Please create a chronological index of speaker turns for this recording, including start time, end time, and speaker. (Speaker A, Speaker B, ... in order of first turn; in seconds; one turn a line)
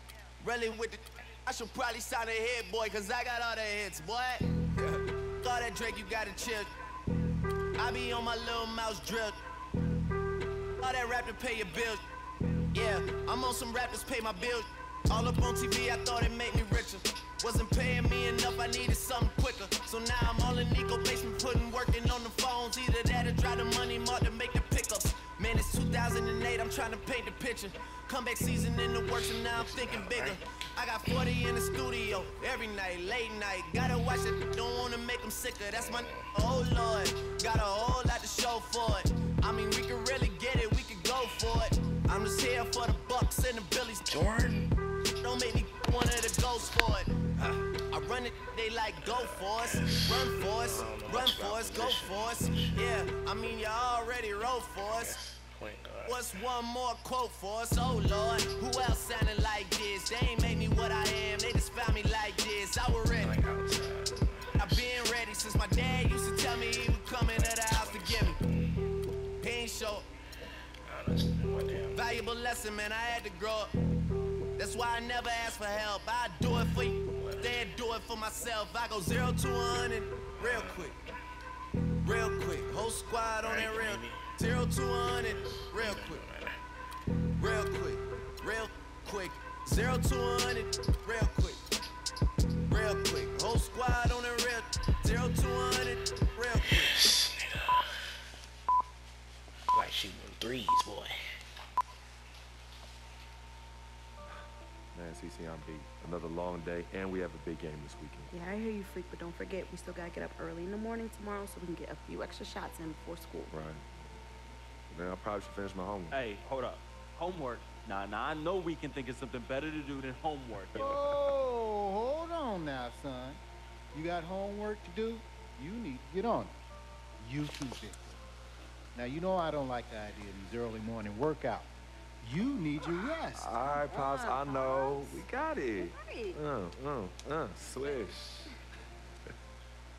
Speaker A: 0.4-6.7
Speaker A: 7.8-9.4
Speaker A: 10.8-12.0
Speaker A: 12.7-44.1
Speaker B: 29.1-30.4
Speaker B: 35.7-36.3
Speaker B: 44.0-44.7
Speaker A: 45.2-47.1
Speaker A: 47.9-55.2
Speaker B: 49.0-52.8
Speaker B: 54.8-56.3
Speaker A: 56.0-63.4
Speaker B: 63.1-65.1
Speaker A: 64.6-68.4
Speaker B: 66.8-68.7
Speaker A: 69.4-70.0
Speaker B: 70.8-72.0
Speaker A: 71.9-73.7
Speaker A: 74.6-81.0
Speaker B: 77.0-77.7
Speaker B: 80.3-81.0
Speaker A: 82.0-86.2
Speaker B: 83.4-84.4
Speaker B: 85.1-86.6
Speaker A: 87.4-91.6
Speaker A: 92.7-97.0
Speaker B: 96.6-97.9
Speaker B: 99.7-101.2
Speaker C: 104.9-108.3
Speaker D: 108.3-113.5
Speaker C: 113.5-113.8
Speaker C: 114.9-116.2
Speaker E: 116.1-121.2
Speaker F: 120.7-123.4
Speaker F: 123.9-126.5
Speaker F: 127.2-128.2
Speaker F: 128.9-131.7
Speaker F: 132.2-133.5
Speaker C: 133.3-138.5
Speaker D: 133.9-135.1
Speaker D: 135.8-136.3